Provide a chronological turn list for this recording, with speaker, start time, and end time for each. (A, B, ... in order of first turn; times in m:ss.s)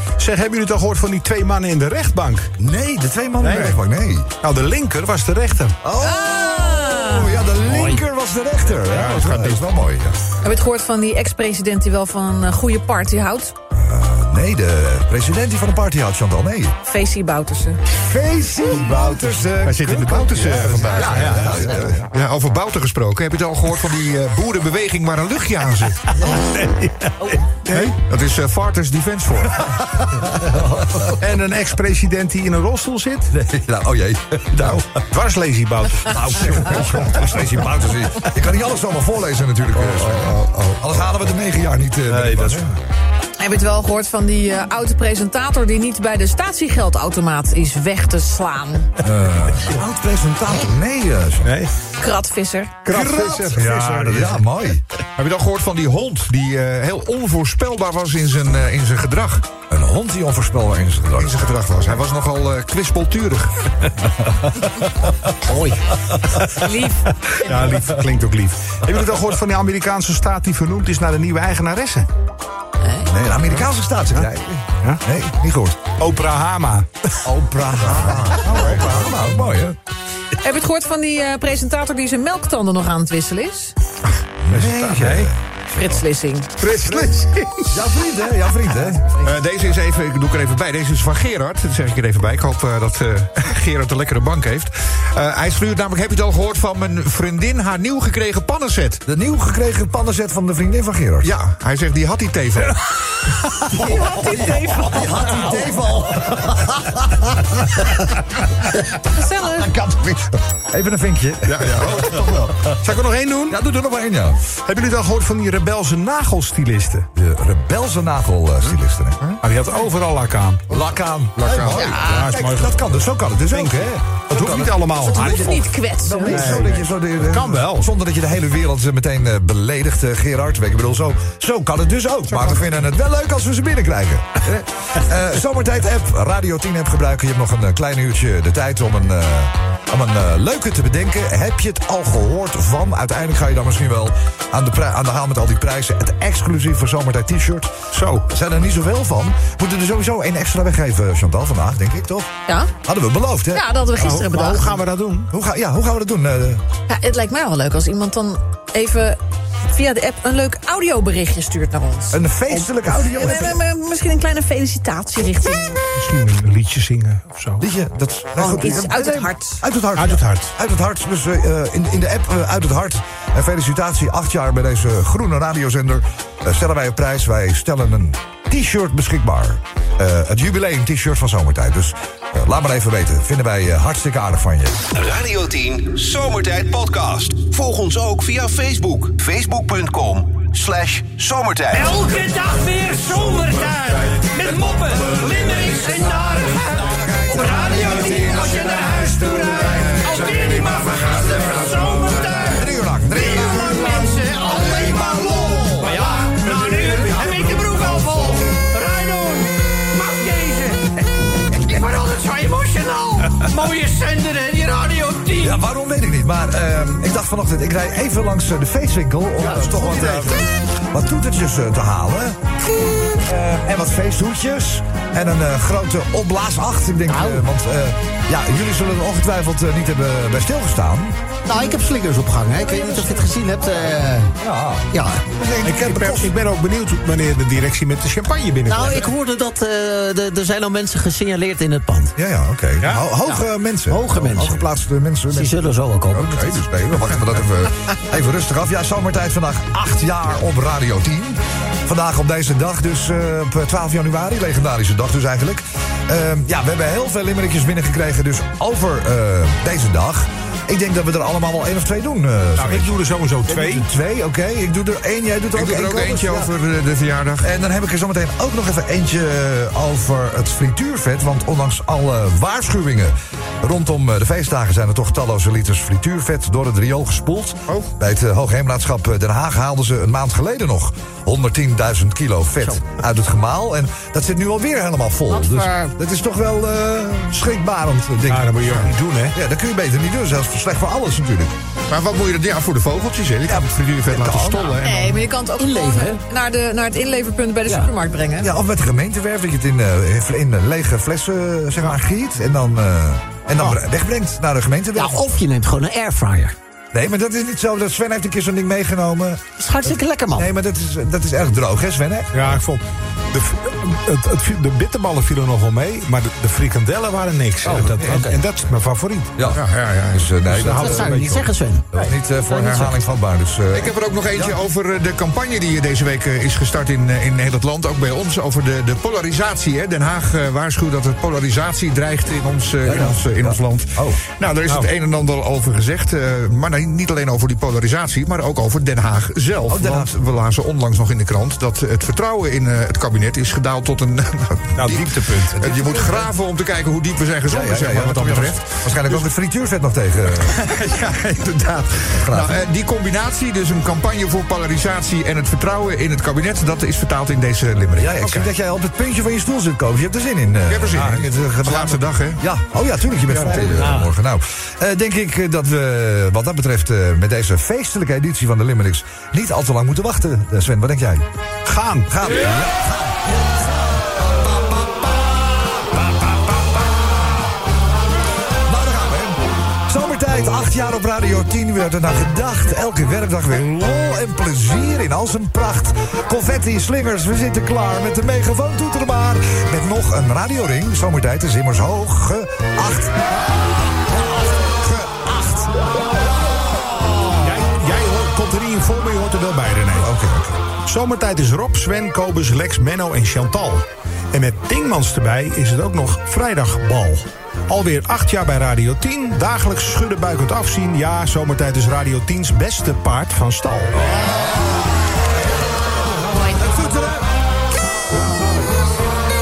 0:00.2-0:02.5 A
0:02.6-0:04.3 B
0:03.4-0:03.8 A
0:04.4-0:05.8 A
0:05.8-0:10.2 B
0:06.0-0:07.4 C
0:08.9-0:09.6 A
0:10.4-0:13.5 C
0:13.7-0:16.7 B
0:16.8-0:17.8 C
0:17.9-0:22.1 B
0:18.7-0:21.6 A
0:20.3-0:21.5 D
0:22.1-0:26.0 D
0:26.2-0:28.0 A
0:28.1-0:29.7 D
0:29.6-0:31.2 B
0:31.2-0:33.3 A
0:33.3-0:35.0 B
0:34.6-0:37.6 A
0:36.0-0:42.7 B
0:39.8-0:40.8 A
0:42.1-0:42.6 A
0:43.4-0:48.9 C
0:49.0-0:51.6 B
0:51.4-0:51.7 A
0:52.0-0:53.0 C
0:52.8-0:54.4 A
0:52.9-0:54.8 B
0:55.2-0:59.5 D
0:59.7-1:01.6 B
1:01.1-1:03.7 D
1:06.6-1:07.7 C
1:07.3-1:12.1 A
1:13.0-1:15.8 B
1:16.0-1:17.2 A
1:17.2-1:19.8 B
1:17.9-1:19.1 A
1:20.4-1:23.7 C
1:24.4-1:26.0 B
1:24.5-1:25.3 A
1:25.7-1:26.5 C
1:26.6-1:27.8 A
1:27.7-1:29.2 B
1:29.2-1:39.0 D
1:39.0-1:41.3 B
1:41.2-1:42.8 D
1:43.7-1:45.6 C
1:43.8-1:47.9 B
1:49.1-1:49.7 C
1:49.4-1:52.7 B
1:51.5-1:51.9 D
1:51.6-1:53.6 A
1:53.5-1:54.4 B
1:54.6-1:57.1 A
1:57.2-1:59.2 B
1:59.4-2:00.6 A
2:00.7-2:27.7 B
2:01.4-2:02.0 D
2:01.7-2:02.7 A
2:03.5-2:07.9 A
2:05.0-2:06.6 C
2:27.9-2:28.2 A
2:28.3-2:32.3 B
2:32.8-2:33.6 B
2:33.5-2:34.8 C
2:34.0-2:35.3 A
2:35.3-2:36.6 B
2:36.9-2:45.8 C
2:42.1-2:43.6 B
2:45.9-2:47.6 A
2:47.6-3:04.8 B
2:48.4-2:49.6 C
2:49.9-2:50.5 A
3:04.9-3:12.0 E
3:11.7-3:35.6 F
3:15.2-3:15.6 B
3:16.6-3:20.9 B
3:22.3-3:26.1 B
3:24.5-3:25.6 G
3:26.2-3:27.8 A
3:26.7-3:27.4 B
3:35.4-3:42.4 B
3:39.5-3:40.4 A
3:43.1-3:51.2 B
3:47.1-3:47.4 G
3:51.4-3:54.3 G
3:54.4-3:56.3 B
3:54.9-3:55.2 G
3:55.6-3:59.1 A
3:58.6-4:02.1 G
4:02.2-4:26.5 B
4:02.8-4:03.1 A
4:03.2-4:04.6 G
4:05.3-4:06.6 G
4:22.6-4:23.9 A
4:25.5-4:27.5 D
4:27.4-4:51.6 B
4:48.2-4:49.4 A
4:51.9-4:55.0 D
4:53.4-4:54.9 B
4:54.8-4:58.5 C
4:55.6-4:56.2 G
4:57.7-4:57.9 G
4:58.4-5:05.4 B
5:04.9-5:06.5 G
5:06.9-5:12.6 B
5:09.6-5:10.5 G
5:12.3-5:19.5 A
5:17.6-5:18.4 G
5:19.4-5:21.3 B
5:19.5-5:20.3 D
5:20.5-5:21.5 A
5:20.7-5:21.9 G
5:21.9-5:23.9 B
5:22.5-5:23.0 D
5:23.7-5:49.2 D
5:32.9-5:34.2 B
5:39.7-5:40.2 B
5:44.8-5:45.5 A
5:45.5-5:46.3 B
5:47.5-5:50.5 B
5:50.4-5:58.4 D
5:52.1-5:52.6 B
5:58.0-6:11.2 B
6:00.7-6:02.4 D
6:03.3-6:04.1 A
6:11.6-6:12.1 A
6:12.1-6:17.6 B
6:18.6-6:37.6 B
6:37.4-6:40.1 A
6:39.9-6:40.6 B
6:40.9-6:54.1 A
6:54.0-6:55.3 B
6:55.8-6:57.3 B